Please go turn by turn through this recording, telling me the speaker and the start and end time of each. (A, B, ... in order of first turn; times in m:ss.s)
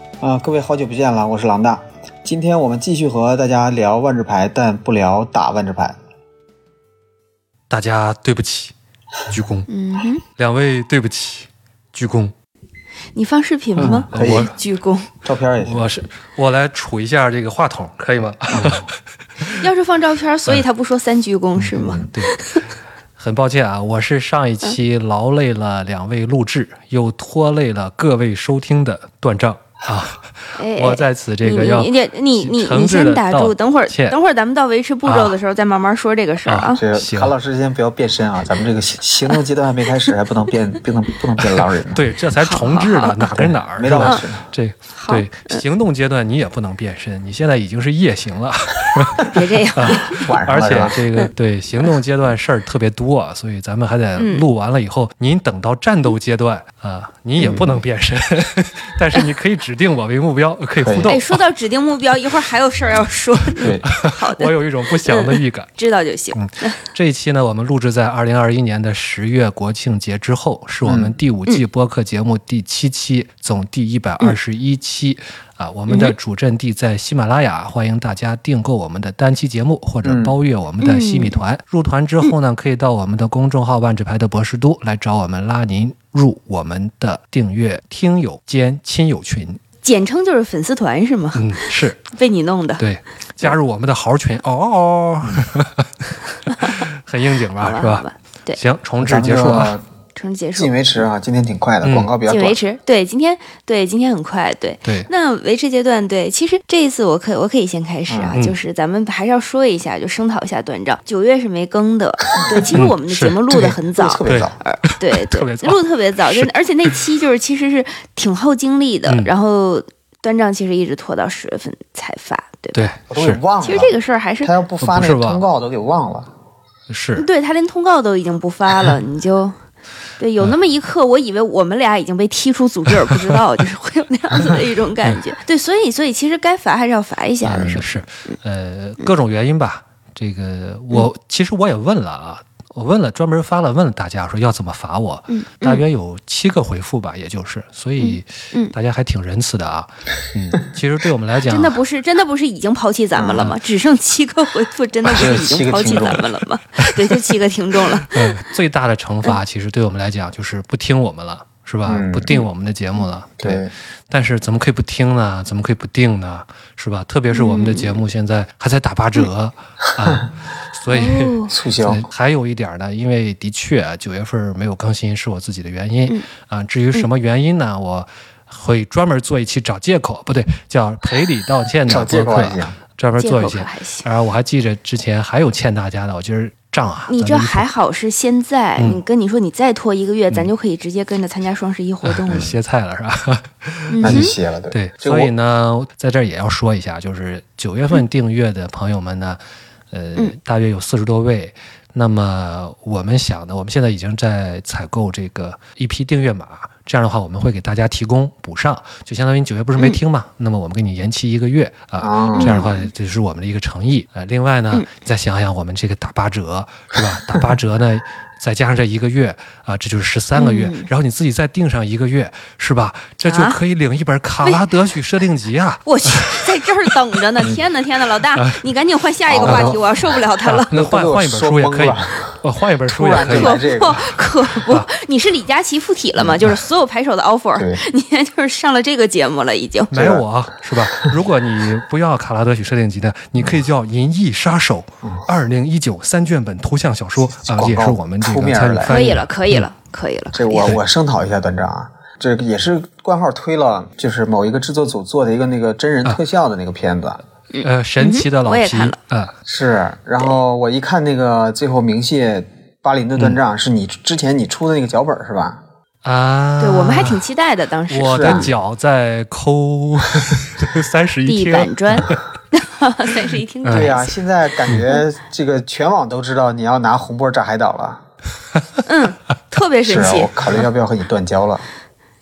0:00.2-0:06.0 A
0:07.7-0:08.7 B
0:09.3-0:09.7 B
0:09.7-0:10.2 C
0:10.4-0:12.3 B
0:13.2-0:15.1 C
0:13.8-0:14.5 A
0:14.1-0:14.5 B
0:15.2-0:15.8 A
0:15.6-0:18.9 B
0:19.4-0:19.7 B
0:19.5-0:22.6 C
0:21.6-0:22.5 B
0:21.8-0:22.1 A
0:23.2-0:34.2 B
0:30.6-0:36.8 C
0:35.0-0:35.4 B
0:36.5-0:37.3 B
0:36.8-0:42.0 A
0:41.6-1:01.4 B
0:42.4-0:43.2 C
0:43.3-0:44.4 A
0:45.0-0:45.6 C
0:49.2-0:50.3 C
0:50.1-0:51.0 A
0:54.2-0:54.4 C
0:57.4-0:57.7 A
1:00.8-1:01.2 A
1:01.1-1:06.8 C
1:03.6-1:03.9 A
1:03.9-1:05.7 B
1:06.3-1:29.6 B
1:10.8-1:11.2 A
1:15.9-1:16.2 C
1:20.0-1:20.4 A
1:20.8-1:21.4 C
1:29.8-1:32.8 C
1:31.4-1:32.0 B
1:32.8-1:39.8 B
1:36.5-1:36.8 C
1:37.6-1:38.6 C
1:39.0-1:39.8 A
1:40.2-1:40.7 C
1:40.6-1:42.6 A
1:41.8-1:42.1 B
1:42.3-2:02.9 C
1:48.1-1:48.4 A
1:52.4-1:52.8 A
1:52.8-1:53.4 B
1:53.5-1:54.6 A
1:54.2-1:57.0 B
2:02.7-2:03.4 B
2:03.1-2:06.3 A
2:03.6-2:04.5 C
2:04.8-2:05.4 B
2:06.9-2:07.3 B
2:07.2-2:09.6 C
2:10.2-2:17.9 C
2:17.4-2:17.8 A
2:17.7-2:31.8 B
2:25.3-2:25.8 C
2:28.0-2:28.7 C
2:31.5-2:38.4 C
2:33.2-2:33.5 A
2:35.1-2:36.3 A
2:36.9-2:37.3 B
2:38.1-3:07.7 B
2:41.8-2:42.3 A
2:43.4-2:43.7 A
2:47.3-2:48.0 C
2:50.9-2:51.5 C
2:51.5-2:52.1 A
3:01.9-3:02.8 A
3:03.2-3:04.1 C
3:07.1-3:12.5 C
3:08.8-3:09.0 B
3:12.0-3:19.4 B
3:12.3-3:12.6 A
3:13.9-3:14.3 C
3:14.0-3:15.3 A
3:19.9-3:46.9 B
3:32.0-3:32.7 A
3:32.4-3:32.9 C
3:40.4-3:40.9 C
3:43.2-3:43.6 C
3:44.4-3:44.7 C
3:45.8-3:50.7 C
3:48.3-3:48.6 B
3:49.3-3:49.8 A
3:49.4-3:49.8 B
3:50.4-3:54.0 B
3:50.7-3:54.1 A
3:53.2-3:59.9 C
3:54.6-3:54.9 B
3:57.6-3:57.8 A
3:59.9-4:09.7 B
3:59.9-4:00.2 A
4:00.8-4:01.2 A
4:07.4-4:09.0 A
4:08.8-4:10.8 C
4:10.3-4:17.2 A
4:17.5-4:19.0 C
4:17.6-4:19.3 B
4:19.5-4:25.6 A
4:26.0-4:27.2 B
4:26.6-4:28.5 C
4:27.9-4:32.1 B
4:28.0-4:28.5 A
4:31.3-4:34.2 C
4:33.6-4:33.9 B
4:33.7-4:38.0 A
4:38.9-4:40.6 C
4:39.8-4:41.7 A